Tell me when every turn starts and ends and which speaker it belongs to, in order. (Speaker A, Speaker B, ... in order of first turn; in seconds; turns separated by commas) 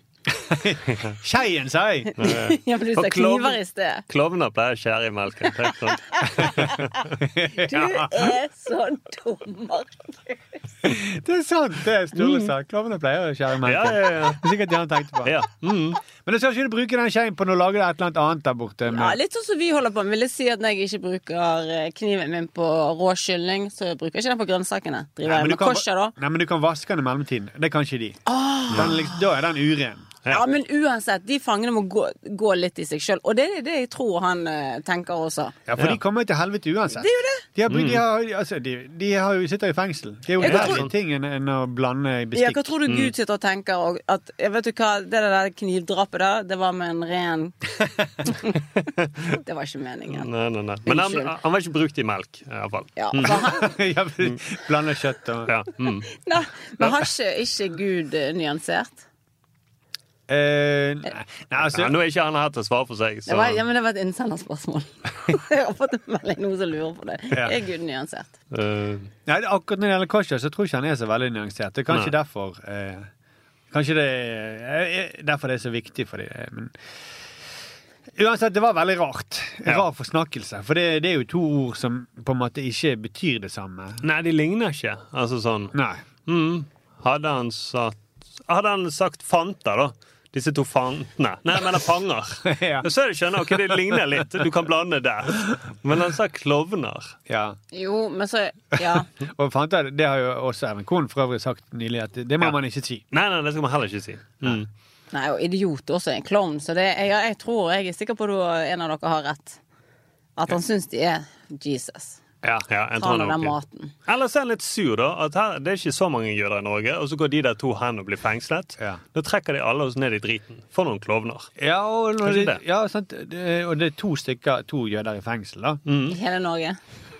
Speaker A: 0.3-2.1, Speaker B: 2.2-4.0, Speaker C: 2.2-6.7, Speaker B: 6.3-6.9, Speaker A: 6.4-6.7, Speaker A: 7.3-8.3, Speaker B: 7.6-10.4, Speaker A: 10.8-15.3, Speaker B: 12.2-12.5, Speaker C: 13.6-14.4, Speaker C: 15.2-16.0, Speaker A: 16.2-19.2, Speaker B: 18.9-26.1, Speaker A: 25.2-30.1, Speaker B: 28.3-29.1, Speaker B: 30.3-35.5, Speaker A: 35.7-42.6, Speaker B: 37.0-37.4, Speaker C: 37.7-38.0, Speaker B: 40.4-40.8, Speaker C: 40.4-40.9, Speaker B: 42.3-47.5, Speaker B: 48.3-48.5, Speaker B: 49.4-50.3, Speaker C: 50.1-53.4, Speaker B: 50.9-51.3, Speaker B: 53.0-53.7, Speaker A: 53.2-55.5, Speaker C: 55.5-56.1, Speaker B: 56.1-59.0, Speaker A: 60.3-62.0, Speaker C: 61.6-63.6, Speaker B: 63.3-68.3, Speaker C: 68.5-69.1, Speaker A: 69.2-73.1, Speaker A: 73.7-76.7, Speaker A: 78.2-84.0, Speaker C: 84.0-85.8, Speaker A: 85.7-86.0, Speaker C: 86.3-97.1, Speaker A: 92.4-94.4, Speaker A: 97.3-97.6, Speaker B: 97.7-99.0, Speaker A: 99.3-103.0, Speaker C: 103.1-104.7, Speaker B: 105.1-109.6, Speaker B: 110.4-112.2, Speaker C: 112.7-121.5, Speaker B: 113.0-113.9, Speaker A: 121.6-125.8, Speaker C: 122.2-122.6, Speaker C: 125.9-126.2, Speaker B: 126.0-126.8